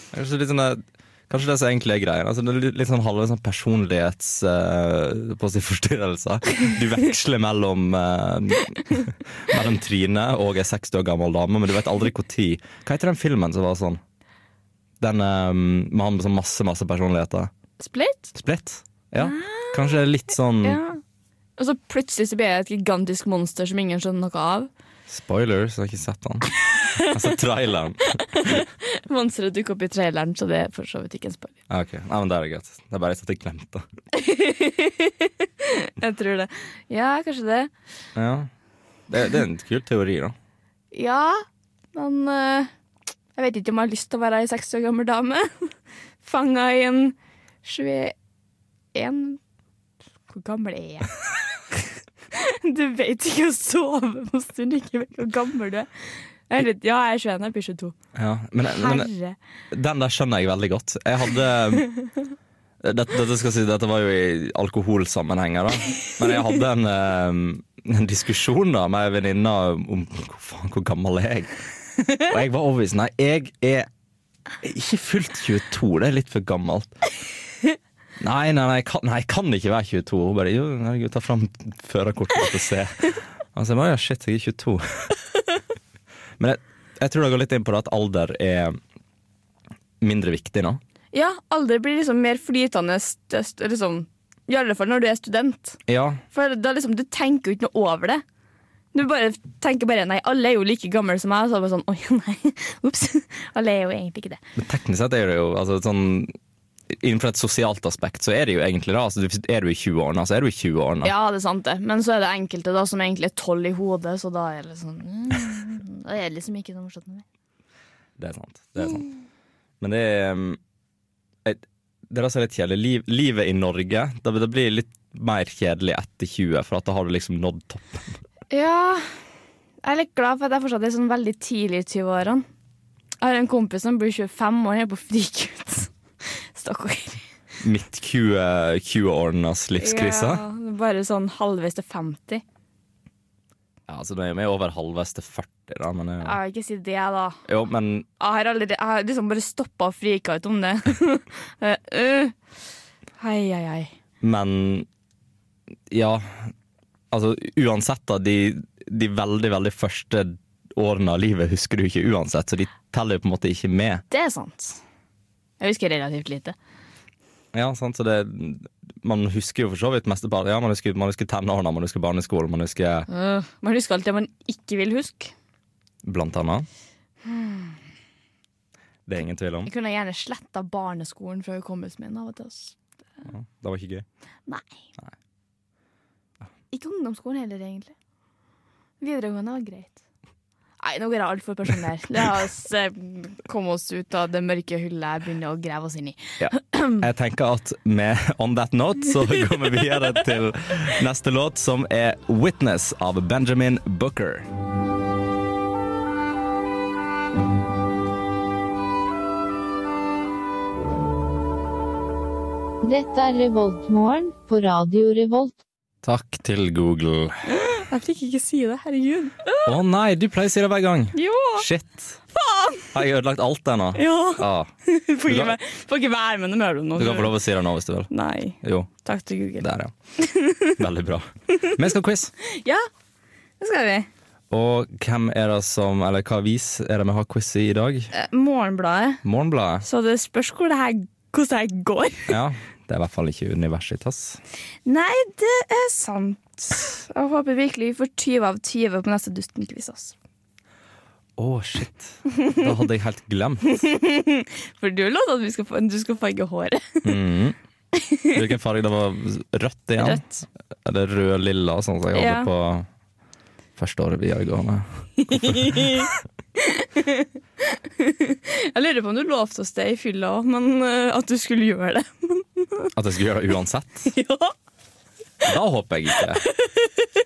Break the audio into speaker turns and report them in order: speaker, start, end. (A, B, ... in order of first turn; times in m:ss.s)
0:00.1-0:14.0 A
0:15.0-0:17.5 A
0:17.8-0:18.3 B
0:18.4-0:20.8 A
0:19.2-0:19.8 B
0:20.6-0:21.0 B
0:21.6-0:24.7 B
0:25.1-0:28.6 A
0:26.7-0:27.2 B
0:28.3-0:31.5 B
0:31.7-0:33.8 A
0:34.1-0:37.7 B
0:38.2-0:38.5 A
0:39.1-0:40.3 A
0:40.9-0:42.7 B
0:43.4-0:48.1 B
0:48.9-0:49.4 B
0:50.3-0:51.2 B
0:52.3-0:57.9 B
0:58.1-0:59.1 A
0:58.6-0:59.4 B
0:59.7-1:02.0 A
1:02.8-1:11.6 A
1:12.1-1:13.9 A
1:14.6-1:17.1 A
1:18.2-1:25.1 A
1:26.4-1:28.8 A
1:30.0-1:30.8 A
1:31.1-1:35.8 B
1:35.9-1:36.2 A
1:36.3-1:38.2 B
1:38.9-1:44.4 B
1:44.6-1:46.3 A
1:47.0-1:51.1 A
1:51.0-1:57.2 B
1:58.2-1:59.0 A
1:59.8-2:00.6 A
2:01.4-2:08.2 A
2:08.5-2:09.2 B
2:09.8-2:12.5 B
2:13.2-2:17.2 B
2:17.6-2:20.4 A
2:19.8-2:22.4 B
2:23.9-2:26.4 A
2:26.2-2:27.4 B
2:27.5-2:28.0 A
2:28.2-2:32.3 B
2:33.2-2:33.9 B
2:34.2-2:34.9 A
2:35.9-2:36.5 A
2:37.1-2:44.0 A
2:44.1-2:44.8 B
2:45.6-2:46.6 B
2:47.5-2:53.1 A
2:53.1-2:55.3 B
2:56.0-2:56.7 A
2:57.2-2:57.8 B
2:59.1-2:59.7 A
2:59.6-3:02.8 B
3:03.3-3:04.0 A
3:04.5-3:04.8 B
3:06.7-3:07.9 B
3:09.0-3:10.0 B
3:10.8-3:17.0 B
3:16.4-3:24.5 A
3:32.8-3:35.5 C
3:36.0-3:37.4 A
3:37.5-3:39.7 B
3:39.6-3:42.2 A
3:41.1-3:41.6 B
3:42.3-3:42.9 B
3:42.9-3:44.7 A
3:44.0-3:47.3 B
3:45.3-3:45.5 A
3:47.0-3:48.1 A
3:48.1-3:49.6 B
3:48.6-3:48.9 A
3:49.6-3:49.9 A
3:50.2-3:50.7 B
3:50.7-3:52.3 A
3:52.4-3:52.9 B
3:53.6-3:54.1 B
3:54.5-3:58.1 A
3:58.1-3:59.2 B
3:59.2-3:59.8 A
3:59.8-4:02.3 B
4:02.3-4:04.4 A
4:04.8-4:10.1 B
4:11.4-4:13.7 A
4:13.7-4:17.1 B
4:17.0-4:17.6 A
4:18.3-4:20.2 A
4:20.0-4:20.4 B
4:20.8-4:22.9 A
4:22.1-4:22.5 B
4:23.8-4:26.0 A
4:25.3-4:32.9 B
4:32.9-4:34.0 A
4:34.1-4:34.5 B
4:35.4-4:36.4 A
4:36.4-4:36.9 B